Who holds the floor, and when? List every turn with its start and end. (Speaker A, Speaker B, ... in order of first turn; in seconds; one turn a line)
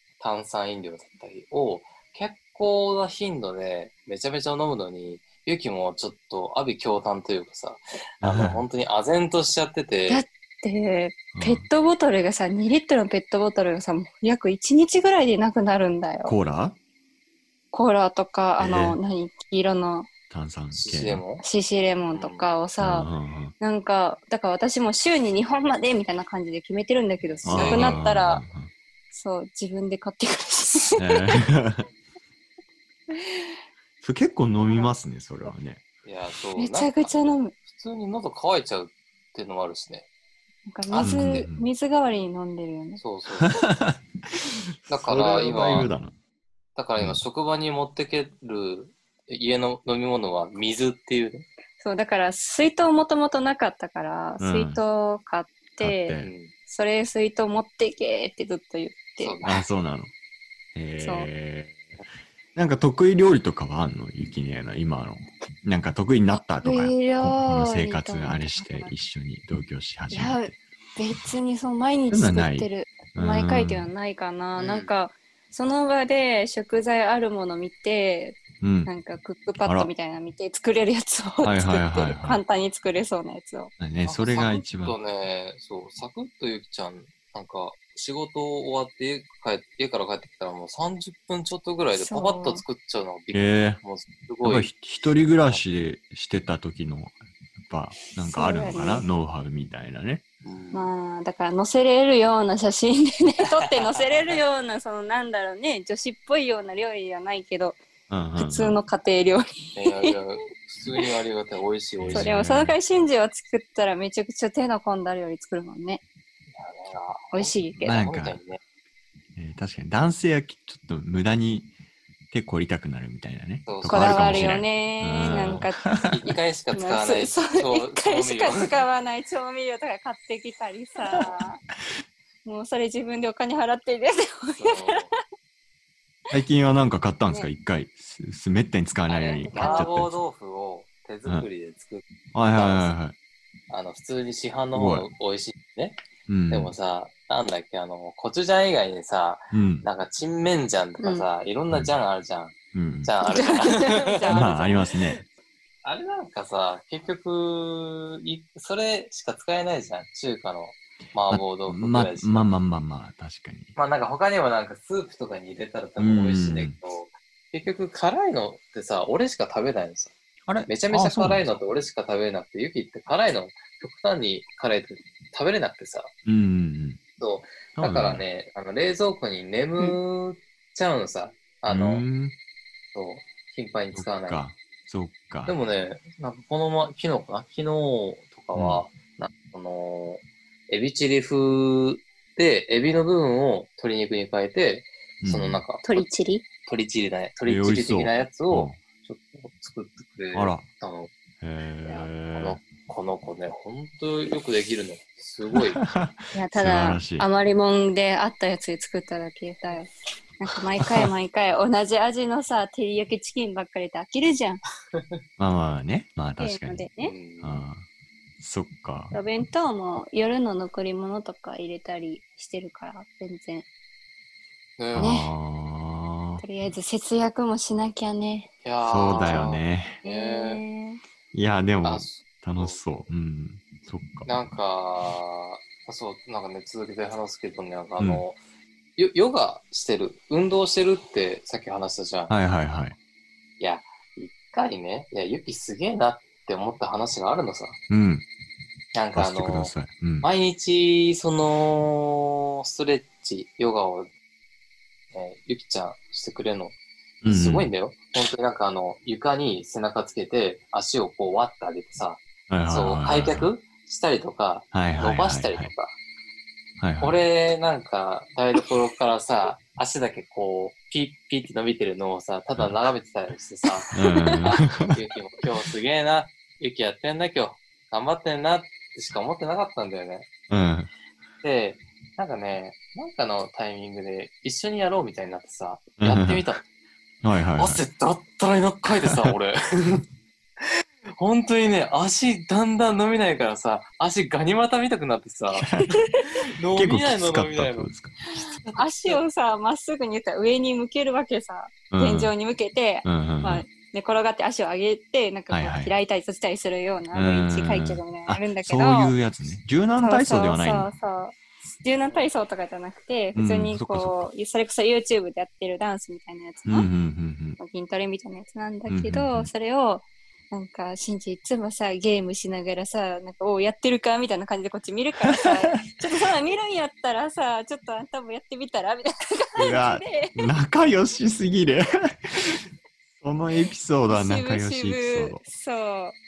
Speaker A: 0.2-10.2
Speaker B: 8.2-8.6
Speaker C: 10.1-16.4
Speaker B: 11.3-11.7
Speaker B: 16.2-16.8
Speaker C: 17.7-20.1
Speaker B: 18.6-19.0
Speaker B: 20.3-21.2
Speaker A: 20.7-21.4
Speaker C: 21.4-23.1
Speaker A: 22.1-22.5
Speaker B: 22.8-23.6
Speaker C: 23.6-28.4
Speaker A: 27.2-28.1
Speaker B: 27.5-28.7
Speaker C: 29.1-31.3
Speaker B: 31.0-31.9
Speaker C: 33.1-33.6
Speaker B: 34.0-35.8
Speaker A: 36.0-40.1
Speaker C: 36.6-37.5
Speaker C: 40.7-43.0
Speaker A: 40.9-41.5
Speaker B: 41.0-41.7
Speaker A: 43.0-43.7
Speaker B: 43.4-46.1
Speaker A: 44.9-45.9
Speaker A: 46.8-51.5
Speaker C: 51.8-59.4
Speaker B: 54.4-54.8
Speaker B: 55.8-56.3
Speaker A: 56.2-56.5
Speaker A: 59.2-59.6
Speaker B: 59.4-60.1
Speaker B: 60.8-61.8
Speaker C: 61.0-61.3
Speaker B: 62.5-70.6
Speaker C: 66.6-68.9
Speaker C: 70.1-83.7
Speaker B: 72.1-73.9
Speaker A: 74.6-74.9
Speaker B: 78.6-78.9
Speaker B: 79.6-79.9
Speaker B: 81.4-82.4
Speaker B: 83.8-85.0
Speaker A: 84.0-94.7
Speaker C: 92.0-92.6
Speaker B: 93.3-93.8
Speaker B: 94.4-100.2
Speaker C: 98.2-99.1
Speaker A: 100.4-100.9
Speaker C: 100.7-107.8
Speaker A: 103.6-104.4
Speaker B: 108.1-108.8
Speaker C: 108.4-110.2
Speaker A: 109.8-112.3
Speaker B: 112.0-112.8
Speaker C: 112.1-116.0
Speaker A: 116.5-118.6
Speaker C: 117.3-117.8
Speaker B: 117.8-118.4
Speaker B: 119.3-121.7
Speaker B: 122.3-126.2
Speaker A: 123.7-124.6
Speaker C: 123.9-131.6
Speaker A: 125.3-128.8
Speaker C: 132.4-135.2
Speaker A: 134.6-135.1
Speaker B: 136.3-140.2
Speaker A: 139.1-142.9
Speaker C: 139.3-139.9
Speaker B: 142.3-143.2
Speaker A: 143.7-146.0
Speaker B: 144.7-145.1
Speaker B: 146.3-146.7
Speaker A: 146.5-154.5
Speaker B: 149.5-149.9
Speaker C: 151.0-151.3
Speaker B: 152.7-153.1
Speaker C: 153.3-155.0
Speaker B: 154.3-155.2
Speaker A: 155.8-162.5
Speaker B: 161.3-163.7
Speaker A: 163.8-170.1
Speaker B: 166.0-166.8
Speaker B: 170.5-171.4
Speaker A: 170.7-176.1
Speaker B: 176.2-177.0
Speaker A: 177.2-182.1
Speaker B: 177.8-178.2
Speaker B: 181.7-182.3
Speaker A: 182.9-184.4
Speaker B: 183.9-185.6
Speaker A: 185.5-196.1
Speaker B: 188.5-188.8
Speaker B: 195.2-195.6
Speaker C: 195.8-196.4
Speaker A: 196.7-201.1
Speaker B: 197.5-198.8
Speaker B: 200.3-200.7
Speaker B: 201.4-202.6
Speaker A: 201.8-205.8
Speaker B: 205.5-207.3
Speaker C: 206.3-214.6
Speaker B: 210.5-211.1
Speaker B: 215.4-216.8
Speaker C: 216.4-217.1
Speaker A: 217.0-217.6
Speaker B: 217.4-217.9
Speaker B: 218.4-219.1
Speaker C: 219.1-223.7
Speaker A: 224.8-225.1
Speaker B: 224.9-226.4
Speaker C: 225.0-225.3
Speaker C: 226.4-228.5
Speaker A: 228.6-230.6
Speaker B: 228.8-230.0
Speaker C: 229.1-229.5
Speaker C: 230.0-231.0
Speaker B: 231.3-234.3
Speaker A: 231.8-232.8
Speaker A: 234.3-238.4
Speaker A: 239.0-242.3
Speaker B: 242.3-243.0
Speaker A: 243.6-247.8
Speaker B: 247.9-248.3
Speaker A: 248.9-254.1
Speaker B: 249.2-250.3
Speaker A: 255.1-265.9
Speaker B: 257.2-257.7
Speaker B: 262.5-263.5
Speaker B: 264.7-265.7
Speaker B: 266.8-267.2
Speaker A: 267.0-280.3
Speaker B: 273.9-274.9
Speaker C: 274.1-274.4
Speaker B: 280.5-280.9
Speaker A: 281.4-286.6
Speaker B: 286.0-286.4
Speaker B: 287.2-287.8
Speaker A: 287.6-290.0
Speaker B: 289.0-289.3
Speaker A: 290.6-299.2
Speaker B: 295.6-295.9
Speaker B: 296.8-298.2
Speaker C: 298.8-309.1
Speaker B: 301.9-302.3
Speaker B: 303.1-303.6
Speaker B: 305.5-305.9
Speaker B: 307.1-310.9
Speaker C: 310.0-316.9
Speaker B: 313.4-314.3
Speaker B: 316.7-317.6
Speaker C: 317.6-330.5
Speaker B: 318.9-319.5
Speaker B: 325.3-325.8
Speaker B: 329.6-332.6
Speaker B: 333.2-335.4
Speaker C: 334.1-336.2